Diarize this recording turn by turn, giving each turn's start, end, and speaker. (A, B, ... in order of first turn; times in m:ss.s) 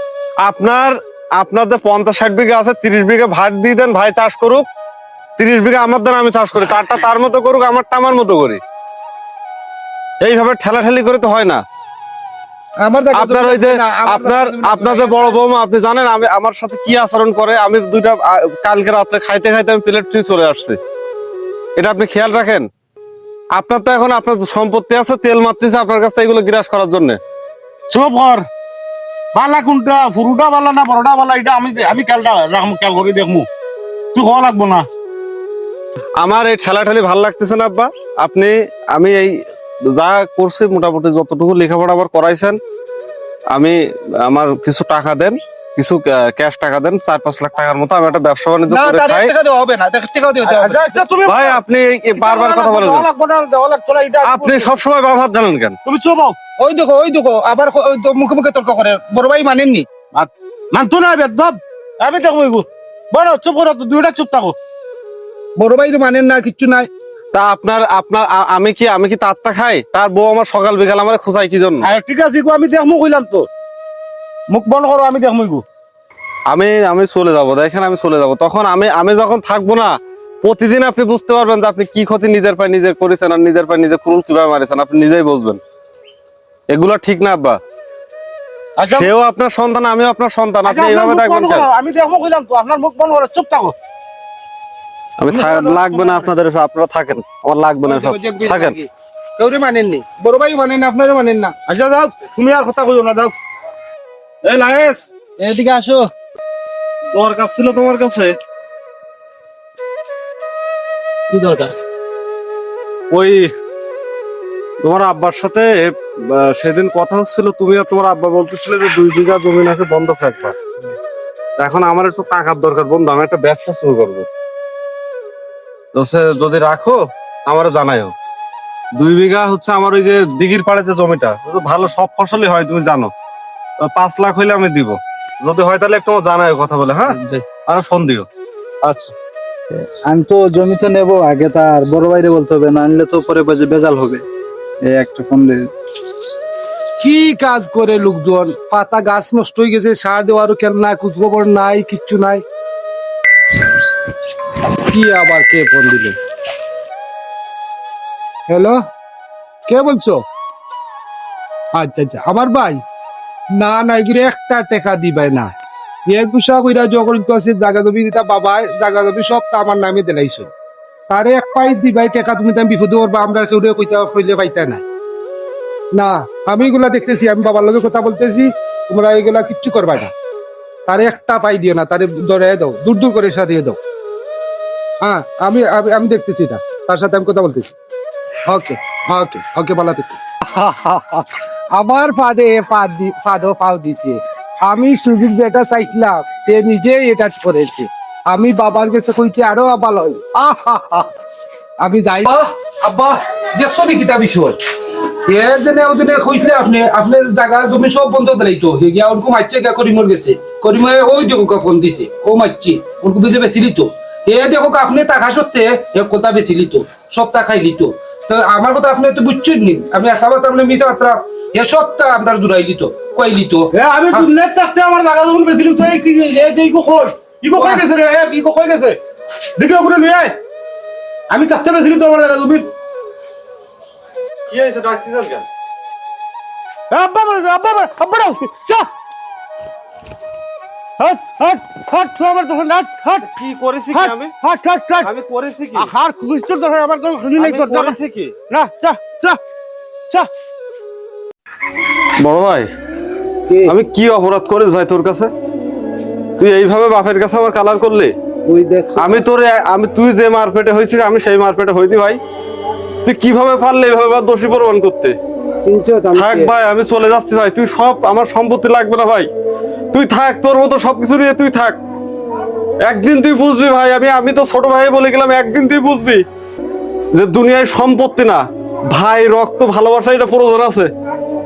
0:00.4-0:04.6 A
0:05.4-0:08.6 A
0:10.2-0:11.6 A
0:12.8-0:15.4 B
0:13.1-0:20.8 A
0:21.8-0:22.7 A
0:23.5-0:27.2 A
0:27.9-0:28.4 C
0:29.3-0:33.4 C
0:34.1-0:34.8 C
0:36.2-0:39.3 A
0:39.9-0:42.6 A
0:43.5-0:49.3 A
0:48.7-0:51.0 B
0:50.4-0:51.6 C
0:51.2-0:53.1 A
0:52.2-0:54.7 C
0:54.2-0:55.8 A
0:55.8-0:56.4 C
0:56.6-0:59.8 B
1:00.1-1:04.6 C
1:05.6-1:06.9 B
1:07.3-1:11.9 A
1:11.8-1:13.4 C
1:14.5-1:15.6 C
1:16.5-1:25.6 A
1:26.7-1:27.6 A
1:28.8-1:29.1 C
1:28.9-1:31.7 A
1:30.6-1:33.7 C
1:35.2-1:38.7 A
1:35.3-1:36.3 C
1:37.8-1:41.5 B
1:41.7-1:43.3 C
1:44.4-1:46.1 A
1:47.1-1:48.3 A
1:51.3-1:51.7 A
1:53.1-1:53.5 A
1:54.8-2:00.6 A
2:01.6-2:04.3 A
2:05.9-2:08.1 A
2:09.0-2:13.1 A
2:13.8-2:18.3 A
2:17.1-2:17.4 D
2:18.8-2:19.1 A
2:19.7-2:24.2 D
2:24.8-2:25.7 D
2:27.0-2:32.4 B
2:34.9-2:36.1 B
2:38.5-2:38.8 B
2:39.7-2:40.2 B
2:41.8-2:42.8 B
2:43.6-2:45.5 B
2:46.1-2:50.5 B
2:51.1-2:54.8 B
2:55.9-3:00.1 B
3:00.8-3:03.8 B
3:05.0-3:07.7 B
3:08.5-3:21.1 B
3:21.8-3:24.6 B
3:25.3-3:44.3 B
3:43.7-3:49.0 C
3:47.5-3:47.8 B
3:49.6-3:50.3 C
3:51.3-3:52.7 C
3:54.5-3:55.4 A
3:56.9-3:58.9 C
4:01.0-4:03.2 C
4:03.2-4:04.3 A
4:03.9-4:05.1 C
4:05.0-4:05.9 A
4:05.7-4:08.0 C
4:07.4-4:08.3 A
4:08.5-4:09.4 C
4:12.2-4:12.7 A
4:13.5-4:13.7 B
4:13.6-4:15.3 A
4:16.4-4:18.1 A
4:18.5-4:19.2 B
4:19.0-4:22.2 A
4:23.0-4:25.1 A
4:25.5-4:26.5 B
4:26.2-4:29.3 A
4:29.9-4:31.8 A
4:32.8-4:36.2 A
4:37.1-4:40.9 A